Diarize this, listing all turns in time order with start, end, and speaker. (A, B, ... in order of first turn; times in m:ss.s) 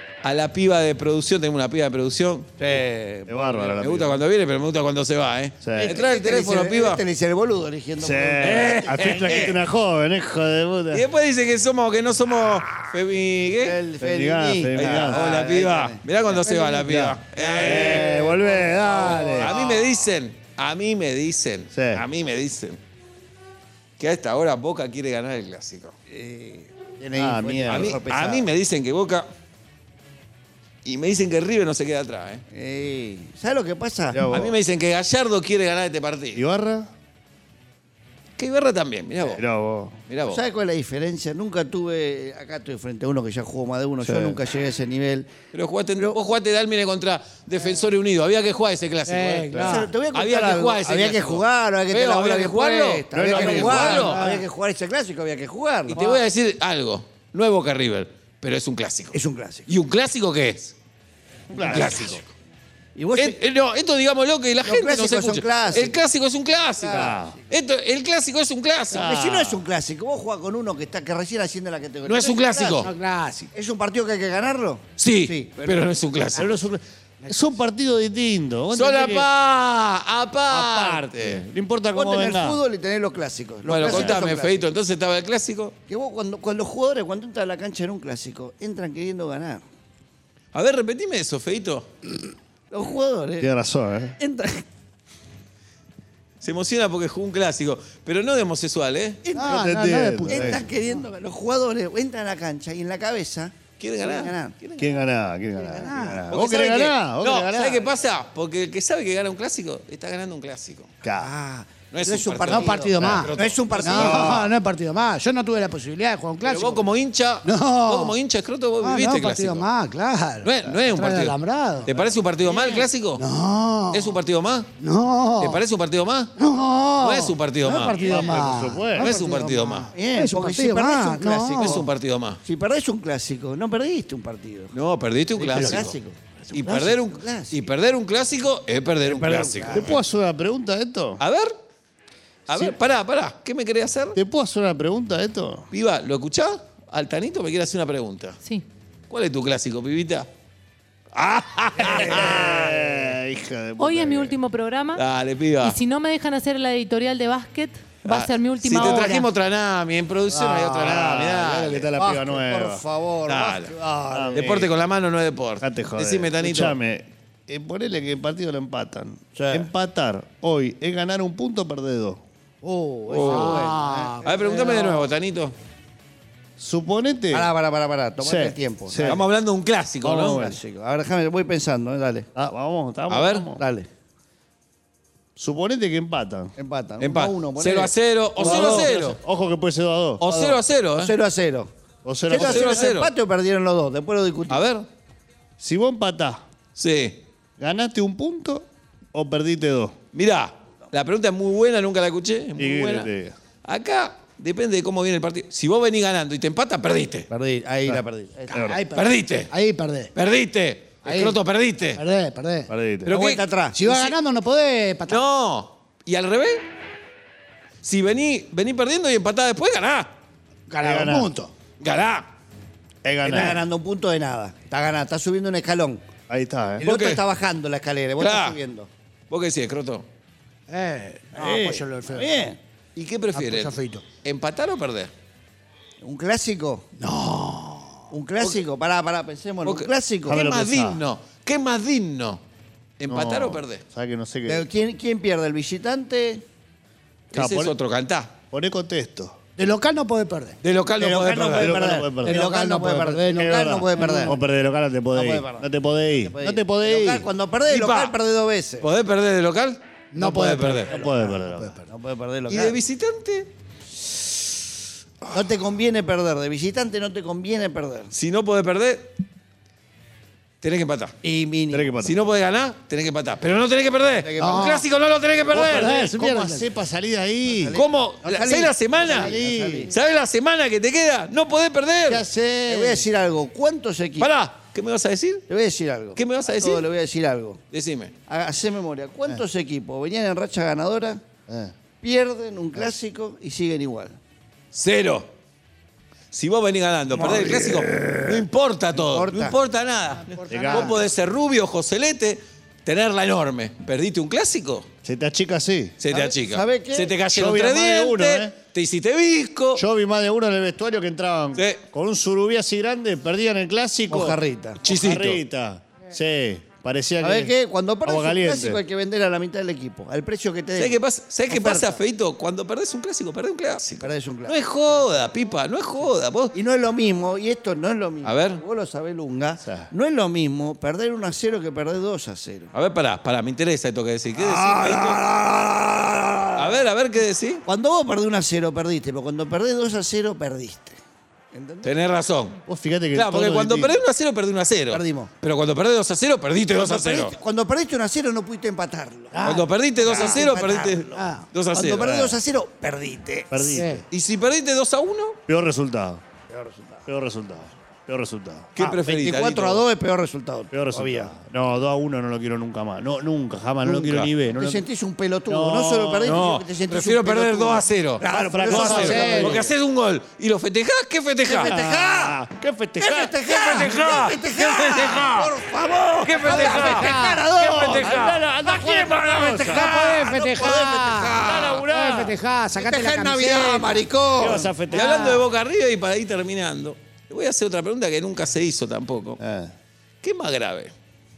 0:00.2-0:02.5 A
0:02.6-0:03.8 B
0:03.3-0:04.2 C
0:03.8-0:07.0 A
0:05.6-0:06.0 C
0:05.8-0:09.6 B
0:08.0-0:11.1 C
0:08.4-0:09.6 A
0:10.9-0:13.8 A
0:13.6-0:16.0 B
0:14.0-0:15.2 C
0:14.7-0:18.1 A
0:16.5-0:16.8 D
0:16.7-0:19.5 C
0:17.4-0:19.9 B
0:19.1-0:22.8 A
0:21.7-0:22.0 C
0:24.0-0:25.9 A
0:26.1-0:28.5 B
0:27.1-0:28.0 C
0:27.7-0:29.3 A
0:30.8-0:32.4 A
0:32.5-0:34.2 B
0:34.1-0:34.6 C
0:34.3-0:36.4 A
0:36.3-0:36.9 C
0:38.4-0:39.4 A
0:39.2-0:40.0 C
0:40.1-0:40.4 A
0:40.2-0:45.3 B
0:44.0-0:44.4 C
0:45.5-0:49.6 A
0:49.0-0:49.9 D
0:49.5-0:49.8 C
0:49.6-0:56.0 B
0:50.1-0:54.2 A
0:53.1-0:54.2 C
0:53.7-0:54.4 D
0:55.9-1:00.7 A
0:55.9-0:56.2 D
0:59.1-0:59.7 B
1:01.5-1:02.1 C
1:01.6-1:02.3 A
1:03.0-1:03.4 B
1:03.2-1:09.1 A
1:04.6-1:06.0 B
1:06.8-1:07.1 B
1:06.8-1:07.3 C
1:08.9-1:09.6 C
1:08.9-1:12.9 B
1:12.0-1:12.9 A
1:12.8-1:13.5 D
1:13.5-1:15.9 B
1:15.0-1:16.5 A
1:16.3-1:19.3 C
1:18.7-1:21.4 A
1:20.5-1:22.6 C
1:21.9-1:24.7 B
1:23.6-1:25.7 A
1:23.8-1:24.2 C
1:25.9-1:29.6 B
1:30.5-1:31.8 A
1:32.7-1:33.5 B
1:33.4-1:34.2 C
1:34.2-1:34.6 B
1:36.4-1:39.2 A
1:39.2-1:39.6 B
1:39.3-1:41.0 D
1:39.4-1:40.6 C
1:40.3-1:44.5 B
1:43.8-1:44.9 A
1:44.8-1:47.9 C
1:45.7-1:46.5 B
1:45.8-1:46.2 D
1:46.3-1:50.9 A
1:51.0-1:51.3 C
1:51.2-1:54.5 B
1:51.9-1:54.3 A
1:52.5-1:56.8 D
1:53.0-1:53.3 C
1:53.9-1:54.5 C
1:56.4-1:59.6 A
1:57.4-1:58.2 D
1:58.8-2:01.9 D
2:00.4-2:03.2 A
2:02.5-2:02.8 B
2:03.2-2:04.2 D
2:03.9-2:04.7 A
2:04.8-2:05.6 D
2:05.4-2:06.3 A
2:06.4-2:11.8 D
2:07.0-2:08.0 A
2:07.8-2:08.2 B
2:07.9-2:09.1 C
2:09.0-2:09.9 A
2:09.9-2:11.9 B
2:11.6-2:12.4 A
2:12.4-2:14.7 B
2:14.7-2:16.0 A
2:15.4-2:17.6 B
2:15.5-2:15.9 D
2:16.5-2:20.0 A
2:19.0-2:20.0 B
2:19.7-2:21.2 C
2:21.2-2:21.5 A
2:22.5-2:24.2 A
2:22.5-2:22.8 C
2:24.1-2:25.6 C
2:25.7-2:28.4 A
2:29.1-2:30.3 A
2:31.1-2:32.6 A
2:31.8-2:34.4 C
2:32.0-2:32.7 B
2:33.8-2:35.0 E
2:34.9-2:35.8 A
2:35.6-2:39.3 E
2:38.0-2:41.9 A
2:40.7-2:42.8 C
2:41.9-2:44.5 B
2:43.3-2:43.7 A
2:44.1-2:44.7 C
2:44.3-2:46.8 A
2:45.6-2:52.2 C
2:49.4-2:49.7 B
2:52.6-2:54.7 B
2:53.1-2:53.7 A
2:53.2-2:55.1 D
2:54.2-2:55.5 A
2:56.6-2:57.5 C
2:57.3-2:59.2 B
2:58.2-2:59.2 C
2:59.0-3:00.4 A
3:00.0-3:00.6 C
3:00.1-3:02.3 B
3:02.4-3:03.6 C
3:03.1-3:03.5 A
3:03.6-3:03.9 B
3:05.4-3:06.5 C
3:06.6-3:08.9 B
3:07.0-3:09.2 A
3:08.4-3:10.6 C
3:10.2-3:11.1 A
3:11.0-3:11.7 B
3:12.0-3:12.9 C
3:12.3-3:14.6 B
3:12.3-3:13.1 A
3:14.5-3:14.8 A
3:15.6-3:16.4 C
3:16.8-3:17.2 A
3:17.6-3:19.9 C
3:20.1-3:23.1 A
3:22.6-3:23.3 C
3:23.6-3:27.3 A
3:27.3-3:28.6 B
3:27.8-3:28.8 C
3:28.5-3:30.1 D
3:28.9-3:29.5 A
3:30.1-3:32.0 A
3:31.0-3:31.4 D
3:31.9-3:32.7 D
3:32.7-3:33.2 C
3:33.0-3:34.1 A
3:33.1-3:33.8 B
3:33.7-3:35.2 D
3:35.1-3:36.6 A
3:37.8-3:40.1 A
3:40.7-3:41.5 D
3:40.8-3:41.3 C
3:41.8-3:42.3 A
3:43.0-3:43.6 C
3:43.2-3:46.0 B
3:46.3-3:46.9 C
3:46.8-3:48.9 B
3:46.8-3:47.2 A
3:48.2-3:48.6 A
3:49.3-3:50.0 A
3:50.7-3:52.4 D
3:51.3-3:52.6 B
3:53.0-3:55.1 A
3:53.3-3:54.0 D
3:56.0-3:56.8 B
3:57.0-3:58.1 D
3:58.1-4:00.4 B
3:59.6-4:02.4 A
4:00.3-4:01.0 C
4:03.0-4:03.8 A
4:03.1-4:04.6 C
4:04.5-4:06.4 B
4:07.3-4:08.3 A
4:07.3-4:07.7 C
4:08.5-4:09.4 C
4:09.6-4:10.6 D
4:10.6-4:11.8 A
4:11.0-4:14.4 B
4:11.5-4:17.3 C
4:12.2-4:14.4 D
4:15.1-4:18.9 B
4:17.7-4:18.2 A
4:18.8-4:20.9 A
4:20.1-4:20.9 D
4:20.9-4:21.8 C
4:20.9-4:22.8 B
4:22.5-4:23.5 A
4:25.3-4:28.1 B
4:28.1-4:29.1 A
4:30.6-4:31.1 A
4:31.2-4:31.9 B
4:31.7-4:32.1 C
4:32.0-4:36.0 A
4:34.2-4:34.8 B
4:34.4-4:34.8 D
4:35.5-4:37.8 C
4:35.5-4:36.7 D
4:37.4-4:39.9 B
4:37.7-4:39.4 A
4:39.0-4:39.9 C
4:39.9-4:42.2 A
4:42.1-4:43.1 C
4:42.6-4:44.3 B
4:44.2-4:45.4 A
4:45.5-4:47.6 B
4:46.2-4:46.9 A
4:47.7-4:48.1 A
4:48.3-4:51.2 B
4:51.5-4:51.7 C
4:52.0-4:54.2 B
4:54.7-4:55.3 A
4:56.3-5:04.9 A
4:57.1-4:59.6 B
5:00.2-5:00.9 D
5:00.5-5:01.0 C
5:05.0-5:06.0 C
5:06.0-5:09.8 A
5:06.1-5:07.1 B
5:07.3-5:08.5 C
5:09.8-5:17.5 C
5:11.6-5:11.8 A
5:14.1-5:14.8 B
5:14.8-5:15.4 A
5:17.2-5:21.0 B
5:18.0-5:18.8 C
5:20.7-5:26.5 A
5:21.5-5:22.0 B
5:24.0-5:24.6 B
5:26.5-5:32.7 B
5:28.2-5:28.6 A
5:29.6-5:29.9 C
5:32.7-5:35.2 A
5:34.4-5:36.8 B
5:36.6-5:37.6 A
5:37.6-5:41.0 B
5:41.5-5:41.9 B
5:41.8-5:42.6 A
5:42.7-5:44.0 C
5:43.1-5:47.3 A
5:44.9-5:45.3 B
5:46.7-5:49.4 B
5:49.3-5:50.2 D
5:49.4-5:52.1 A
5:50.0-5:51.2 B
5:51.1-5:51.4 D
5:51.7-5:53.8 B
5:52.0-5:52.4 C
5:53.5-5:54.0 C
5:53.7-5:54.0 D
5:54.1-5:55.4 A
5:55.5-5:56.2 C
5:56.5-5:57.0 B
5:57.0-5:58.7 C
5:58.8-5:59.8 A
5:58.8-6:01.3 B
6:00.7-6:04.8 C
6:03.9-6:04.3 A
6:04.5-6:09.7 B
6:05.5-6:06.6 C
6:06.2-6:11.7 A
6:08.2-6:09.7 C
6:08.8-6:09.6 D
6:11.4-6:12.4 B
6:11.6-6:14.2 C
6:13.0-6:21.8 B
6:13.4-6:15.5 A
6:16.2-6:18.4 A
6:16.4-6:17.4 D
6:17.6-6:20.0 C
6:19.7-6:24.0 D
6:21.4-6:22.4 C
6:22.7-6:24.7 B
6:24.4-6:25.3 C
6:24.9-6:25.4 D
6:24.9-6:29.4 A
6:29.4-6:29.7 C
6:30.2-6:30.9 A